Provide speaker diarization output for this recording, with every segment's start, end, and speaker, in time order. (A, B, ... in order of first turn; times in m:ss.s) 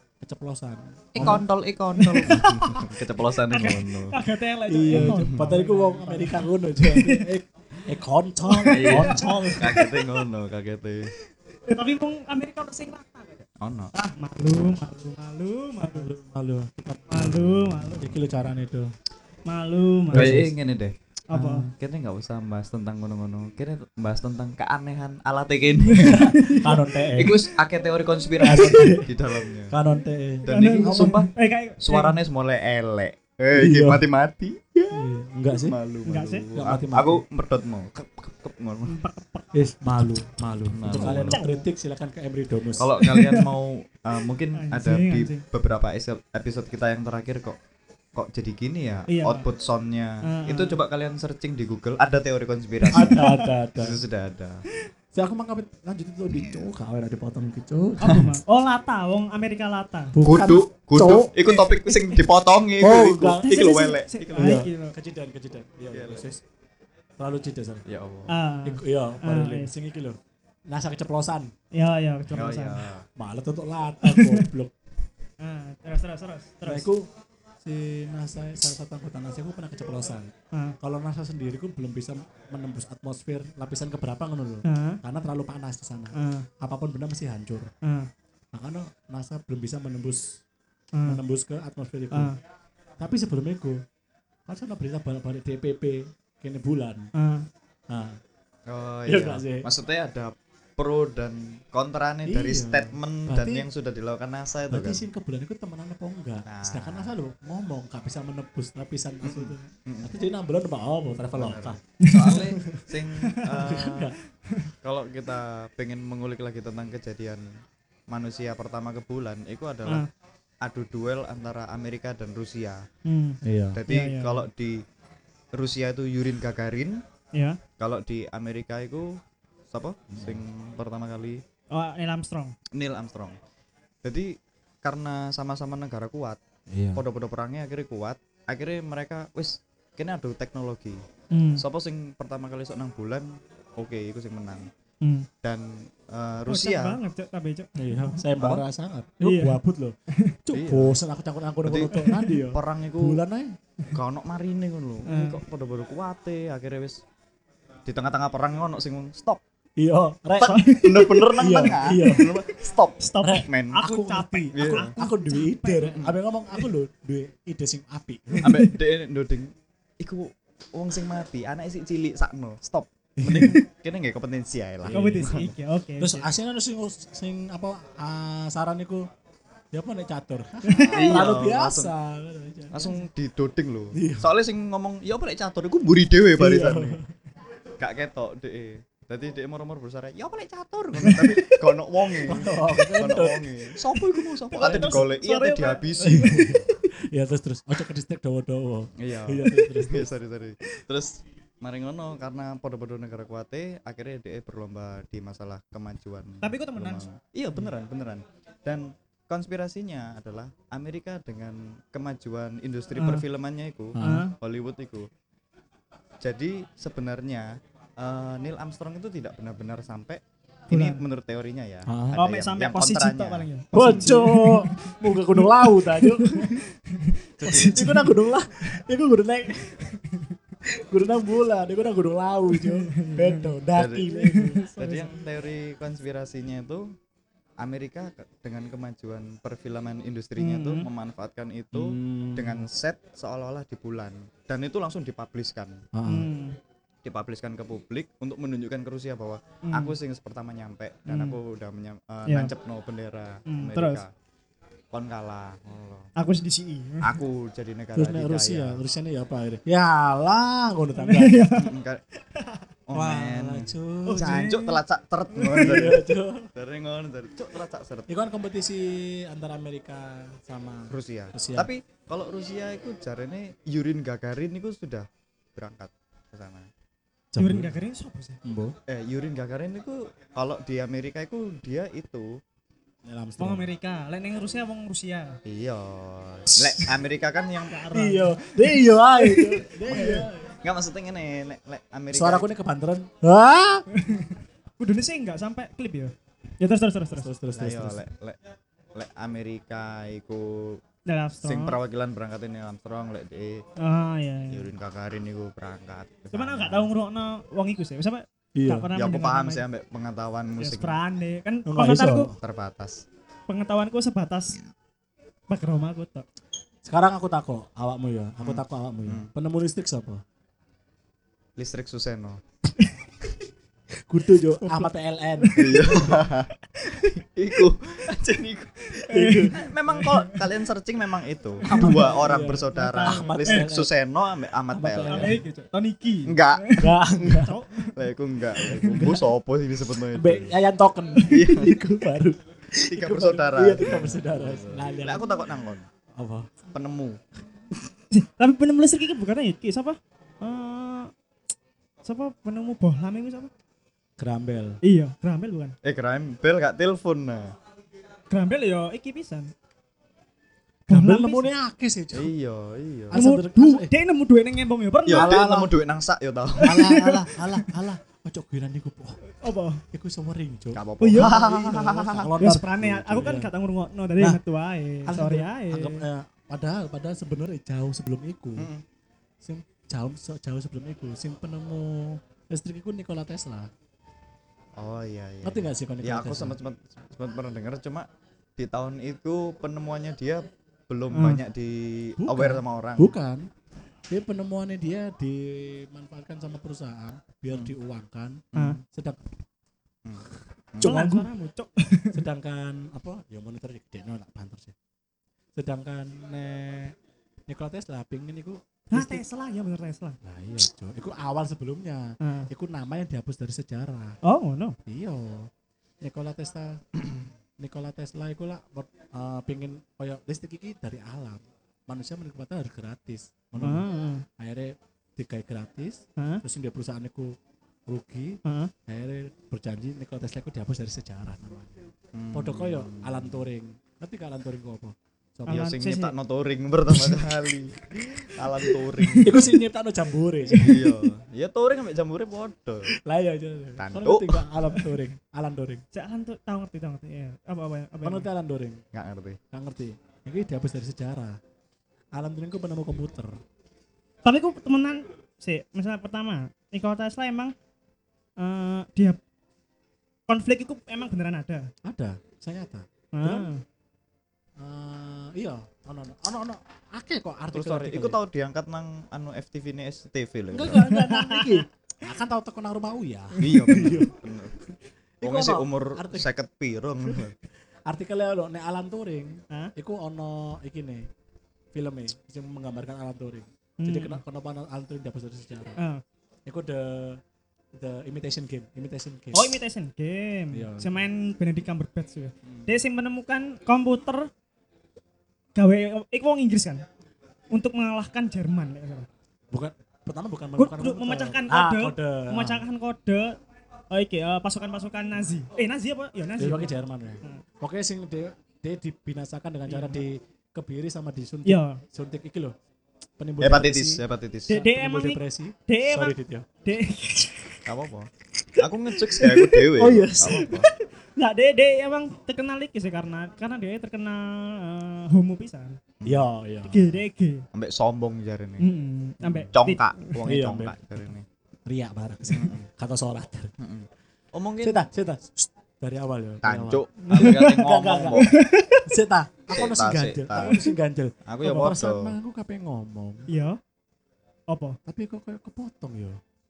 0:00.2-0:01.4 A
0:01.1-0:04.2 B
0:01.2-0:01.4 C
0:02.0-0:02.9 C
0:02.3-0:02.9 A
0:03.5-0:07.3 C
0:04.7-0:09.8 A
0:04.9-0:05.4 B
0:08.5-0:10.1 C
0:08.6-0:11.1 B
0:11.7-0:16.1 C
0:13.6-0:13.9 B
0:15.8-0:18.9 A
0:17.1-0:18.1 C
0:19.5-0:20.5 C
0:20.1-0:20.5 A
0:20.1-0:26.2 B
0:21.3-0:21.7 C
0:25.8-0:26.9 C
0:26.0-0:27.4 A
0:27.2-0:29.8 B
0:28.4-0:31.2 A
0:28.4-0:28.9 C
0:30.5-0:35.0 B
0:30.5-0:32.2 C
0:33.6-0:34.0 A
0:34.9-0:35.8 A
0:35.5-0:39.0 B
0:36.1-0:36.5 C
0:36.6-0:37.2 A
0:38.9-0:39.5 C
0:39.5-0:43.0 A
0:40.7-0:41.4 B
0:40.9-0:41.7 C
0:42.8-0:47.6 B
0:43.0-0:43.5 C
0:44.6-0:45.4 C
0:48.2-0:53.3 B
0:49.1-0:49.4 C
0:50.2-0:50.8 C
0:52.8-0:53.5 C
0:52.9-0:54.0 A
0:53.8-0:54.6 B
0:55.1-0:58.4 A
0:58.0-1:00.1 C
1:00.1-1:01.4 A
1:00.2-1:04.6 B
1:01.5-1:02.2 C
1:02.8-1:06.4 A
1:03.4-1:05.0 C
1:05.9-1:06.3 B
1:07.2-1:07.8 A
1:07.9-1:08.3 B
1:08.3-1:09.7 C
1:08.6-1:11.5 A
1:11.7-1:12.8 C
1:12.3-1:13.1 B
1:13.2-1:14.7 A
1:14.0-1:14.5 C
1:15.4-1:16.9 C
1:16.6-1:17.1 A
1:17.6-1:27.7 A
1:24.6-1:25.0 C
1:26.1-1:26.5 C
1:27.8-1:28.1 C
1:28.5-1:30.4 A
1:30.9-1:31.2 C
1:31.1-1:32.3 A
1:32.1-1:32.4 C
1:33.0-1:33.8 A
1:34.5-1:37.1 A
1:37.1-1:37.5 C
1:37.9-1:38.2 A
1:38.7-1:45.0 B
1:39.1-1:39.7 A
1:42.3-1:43.7 A
1:44.7-1:52.8 A
1:46.4-1:47.1 B
1:49.2-1:50.1 B
1:51.3-1:54.1 B
1:52.0-1:52.4 C
1:53.3-1:53.6 C
1:53.5-1:54.2 A
1:54.8-1:57.4 B
1:58.1-2:00.1 B
2:00.6-2:02.8 B
2:03.0-2:04.4 C
2:03.4-2:03.8 A
2:03.7-2:04.8 B
2:05.5-2:07.0 B
2:07.3-2:07.6 C
2:07.8-2:11.4 B
2:10.1-2:10.4 A
2:11.7-2:12.6 C
2:12.7-2:13.4 B
2:14.0-2:16.4 B
2:16.7-2:17.0 A
2:17.0-2:21.0 B
2:21.3-2:21.6 C
2:21.6-2:24.7 B
2:25.0-2:25.3 C
2:25.4-2:27.0 B
2:26.5-2:28.2 C
2:27.8-2:33.6 A
2:29.2-2:29.6 C
2:30.1-2:30.4 C
2:30.5-2:31.0 B
2:31.6-2:32.0 B
2:31.9-2:32.4 C
2:32.5-2:33.2 B
2:33.9-2:37.0 B
2:35.1-2:35.4 C
2:37.9-2:39.4 B
2:39.8-2:40.6 A
2:40.4-2:43.8 B
2:40.4-2:42.4 C
2:41.3-2:42.4 A
2:43.0-2:46.0 C
2:43.2-2:48.7 A
2:44.5-2:44.9 B
2:45.8-2:46.1 B
2:48.4-2:48.7 C
2:48.4-2:55.5 B
2:53.2-2:53.6 A
2:54.8-2:59.1 A
2:54.9-2:56.3 C
2:59.7-3:03.0 A
3:00.6-3:01.4 C
3:00.8-3:01.9 B
3:02.7-3:07.0 B
3:03.9-3:04.3 A
3:06.4-3:07.1 A
3:07.8-3:16.6 B
3:11.0-3:11.6 A
3:12.2-3:13.8 A
3:14.5-3:15.9 C
3:14.6-3:15.1 A
3:16.0-3:20.1 A
3:19.0-3:35.1 B
3:26.4-3:27.1 C
3:33.0-3:33.2 C
3:34.0-3:34.3 A
3:34.0-3:34.4 C
3:36.2-3:44.1 B
3:40.7-3:41.0 C
3:41.9-3:42.2 A
3:42.2-3:48.1 C
3:43.7-3:46.6 A
3:47.4-3:47.8 B
3:47.4-3:49.8 A
3:49.8-3:50.4 C
3:50.7-3:54.7 A
3:52.5-3:53.6 C
3:53.7-3:54.1 B
3:54.1-3:55.1 C
3:54.8-3:56.9 B
3:57.6-4:05.8 B
4:00.4-4:00.9 C
4:01.7-4:02.6 A
4:05.9-4:06.3 A
4:06.1-4:06.6 C
4:07.0-4:14.1 B
4:09.6-4:10.0 C
4:11.1-4:11.4 C
4:13.5-4:14.0 C
4:14.9-4:16.1 B
4:16.2-4:17.2 C
4:17.0-4:18.8 B
4:18.0-4:21.4 A
4:21.0-4:21.7 C
4:21.6-4:22.0 B
4:22.3-4:22.6 C
4:22.9-4:26.0 B
4:22.9-4:24.4 A
4:24.1-4:24.8 C
4:25.4-4:25.9 C
4:25.5-4:26.5 A
4:26.5-4:28.1 B
4:28.1-4:31.7 A
4:30.9-4:36.7 B
4:37.3-4:37.8 A
4:37.4-4:38.4 C
4:38.4-4:38.7 A
4:38.9-4:42.4 B
4:43.1-4:43.7 A
4:43.4-4:45.4 C
4:45.4-4:47.8 B
4:46.5-4:47.0 A
4:47.7-4:50.3 C
4:47.9-4:50.5 A
4:50.6-4:52.5 B
4:52.1-4:53.8 A
4:53.9-4:57.3 C
4:57.1-4:58.0 A
4:57.6-4:58.4 B
4:59.0-5:00.8 B
5:01.1-5:01.8 C
5:01.4-5:03.6 B
5:03.8-5:04.7 C
5:04.5-5:06.9 B
5:06.3-5:09.6 C
5:08.6-5:08.9 A
5:09.0-5:11.0 B
5:10.6-5:12.3 C
5:11.7-5:12.4 A
5:12.4-5:13.0 B
5:13.5-5:14.6 C
5:15.5-5:16.2 C
5:16.8-5:20.2 A
5:18.4-5:19.3 B
5:21.6-5:22.4 B
5:24.1-5:26.1 A
5:24.6-5:27.1 C
5:25.6-5:28.9 B
5:28.9-5:30.4 C
5:29.1-5:29.6 A
5:29.5-5:35.3 B
5:31.6-5:32.2 C
5:31.6-5:33.9 A
5:32.7-5:33.7 C
5:34.7-5:35.4 A
5:35.1-5:38.0 C
5:36.3-5:37.4 B
5:36.8-5:37.6 A
5:37.9-5:40.6 B
5:38.7-5:39.3 A
5:40.1-5:45.4 A
5:41.3-5:41.7 B
5:42.8-5:45.8 B
5:46.2-5:46.5 A
5:46.7-5:47.2 B
5:48.1-5:51.1 C
5:52.0-5:53.5 C
5:54.2-5:54.8 A
5:54.8-5:55.7 C
5:55.8-5:57.5 B
5:58.3-5:59.5 C
6:00.9-6:01.5 C
6:00.9-6:02.3 A
6:02.1-6:03.2 B
6:03.1-6:03.9 A
6:03.1-6:05.3 C
6:05.1-6:06.8 B
6:05.1-6:05.7 A
6:06.6-6:07.7 C
6:06.6-6:09.2 A
6:09.4-6:09.8 C
6:09.9-6:13.5 A
6:10.7-6:12.3 B
6:11.0-6:16.0 C
6:15.1-6:18.7 A
6:18.6-6:18.8 B
6:19.4-6:23.7 A
6:24.8-6:28.1 B
6:25.4-6:26.6 A
6:28.6-6:33.1 B
6:31.1-6:31.4 C
6:32.2-6:33.5 A
6:34.1-6:39.2 A
6:38.5-6:38.8 B
6:40.0-6:40.9 B
6:40.8-6:41.3 A
6:40.8-6:42.2 C
6:42.1-6:44.7 A
6:45.6-6:47.0 A
6:47.5-6:49.2 A
6:48.9-6:50.2 C
6:50.2-6:54.2 A
6:52.2-6:52.5 C
6:54.2-6:54.8 C
6:54.9-6:55.5 A
6:56.0-6:57.1 A
6:57.6-7:03.9 A
7:03.6-7:04.2 C
7:04.4-7:07.4 A
7:06.2-7:06.4 C
7:07.9-7:15.7 A
7:08.4-7:08.7 C
7:12.1-7:13.4 B
7:15.5-7:16.1 C
7:15.5-7:19.6 B
7:17.9-7:18.2 A
7:19.1-7:21.0 A
7:20.6-7:22.9 B
7:22.9-7:25.8 A
7:23.8-7:24.4 B
7:25.9-7:28.3 C
7:28.0-7:28.8 A
7:28.9-7:29.4 B
7:29.5-7:31.4 A
7:32.1-7:33.4 A
7:34.2-7:37.5 C
7:38.4-7:39.2 C
7:40.3-7:41.7 C
7:41.8-7:43.5 A
7:43.1-7:43.6 C
7:44.6-7:48.2 A
7:47.5-7:50.9 B
7:50.5-7:56.3 A
7:50.9-7:51.7 C
7:53.4-7:54.5 B
7:55.2-7:57.3 B
7:57.9-8:01.1 A
8:01.7-8:05.8 A
8:03.8-8:04.2 C
8:05.8-8:06.0 C
8:06.4-8:07.2 A
8:07.7-8:09.6 A
8:09.3-8:14.3 C
8:10.5-8:11.1 A
8:12.4-8:12.8 A
8:15.6-8:16.8 C
8:17.5-8:19.1 C
8:19.5-8:22.6 A
8:20.6-8:23.4 C
8:23.9-8:27.4 C
8:26.4-8:32.6 A
8:29.7-8:30.0 C
8:31.4-8:31.8 C
8:33.2-8:36.5 A
8:33.4-8:34.6 B
8:34.5-8:37.6 C
8:37.6-8:40.7 B
8:39.2-8:39.5 C
8:39.7-8:40.6 A
8:40.3-8:45.8 C
8:46.0-8:46.3 B
8:46.0-8:47.0 A
8:46.7-8:47.4 C
8:47.5-8:48.7 B
8:48.6-8:50.1 C
8:49.5-8:51.2 B
8:50.2-8:50.8 A
8:51.7-8:53.5 A
8:52.3-8:52.7 B
8:53.6-8:54.9 B
8:54.6-8:58.3 A
8:56.4-8:58.3 B
8:57.0-8:58.9 C
8:58.9-9:03.3 A
8:59.5-9:00.6 B
9:00.4-9:00.7 C
9:01.3-9:02.1 B
9:03.3-9:03.6 C
9:04.5-9:04.8 C
9:04.9-9:06.2 A